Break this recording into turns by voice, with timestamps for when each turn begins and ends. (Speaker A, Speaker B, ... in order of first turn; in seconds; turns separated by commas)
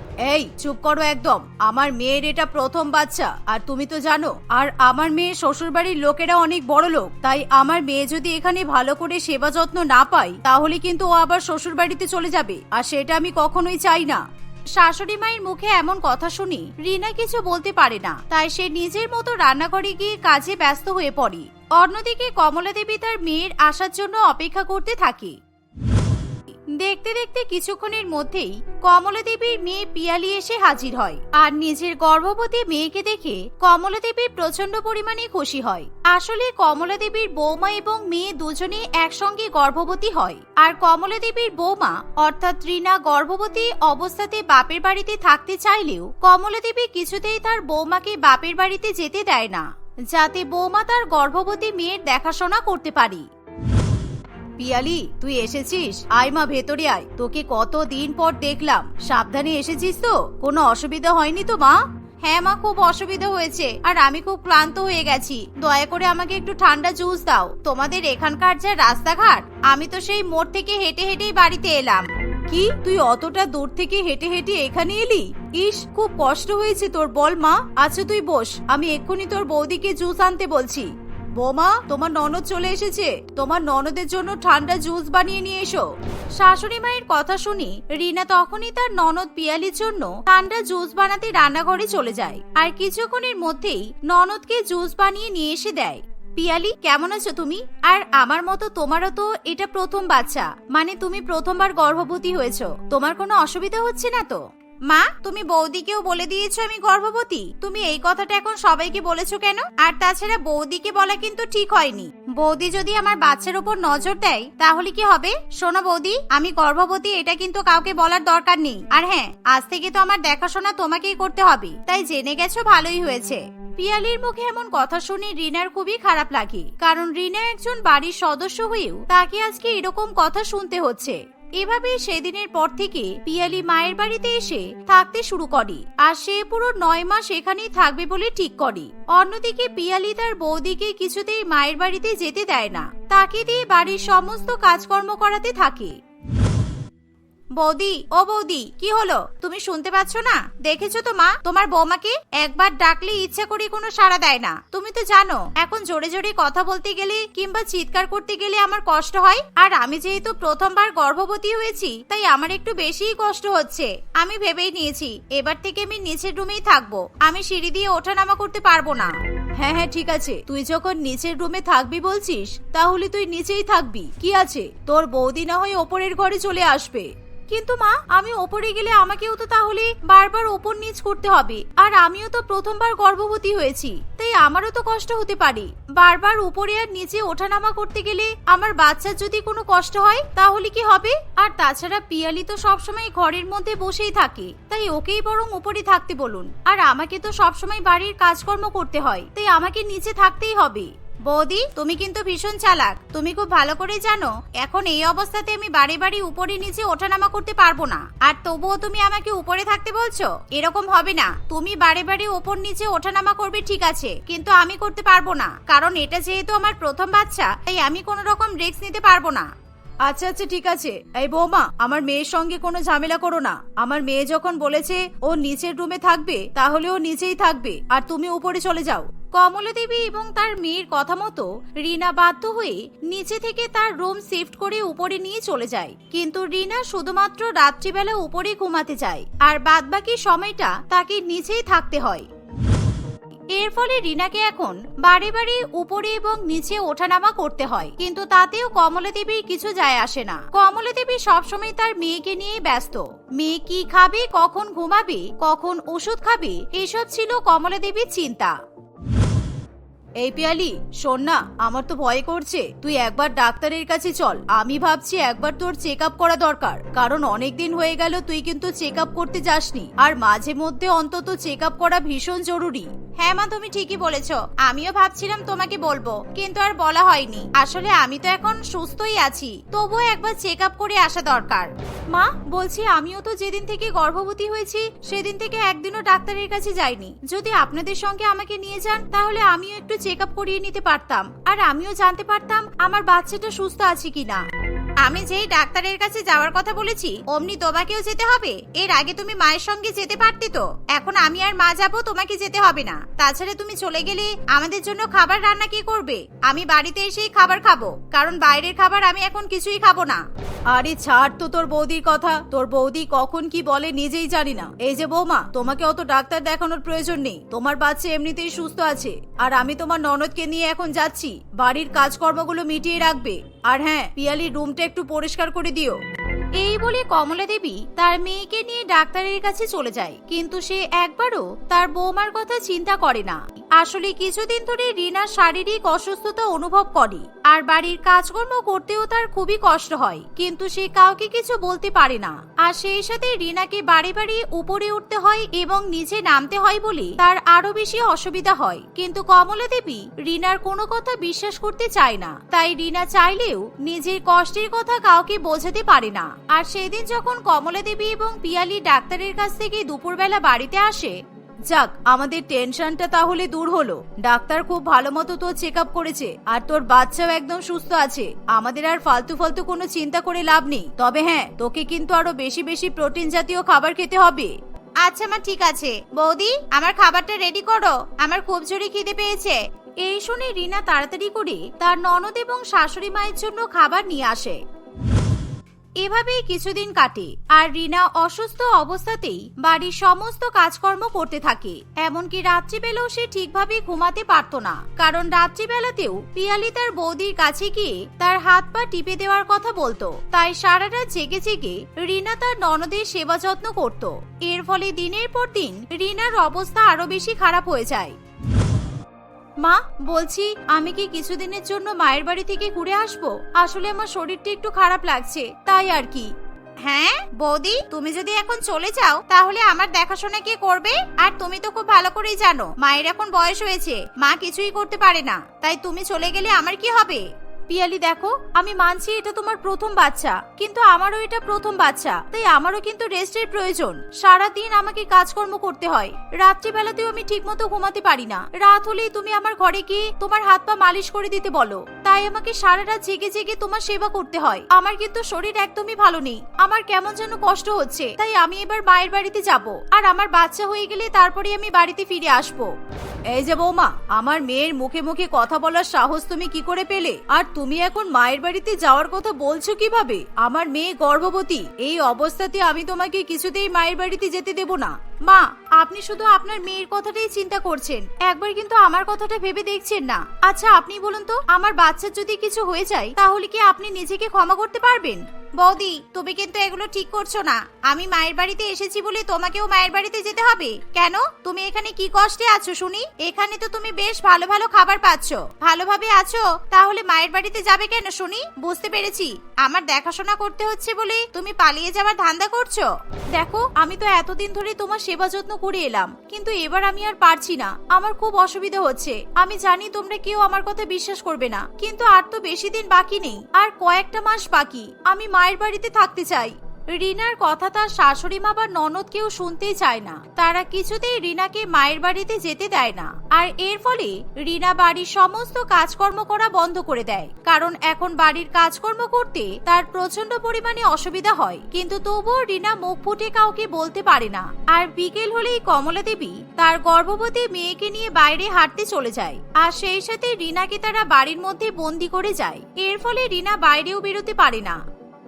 Speaker A: 0.2-14.2, Speaker A: 14.7-25.4, Speaker A: 26.7-53.3, Speaker A: 54.6-146.0, Speaker A: 147.6-219.5, Speaker A: 220.0-242.3, Speaker A: 243.5-258.5, Speaker A: 260.2-294.4, Speaker A: 295.0-326.0, Speaker A: 326.6-384.6, Speaker A: 386.0-408.1, Speaker A: 409.6-416.3, Speaker A: 416.8-452.7, Speaker A: 453.3-534.8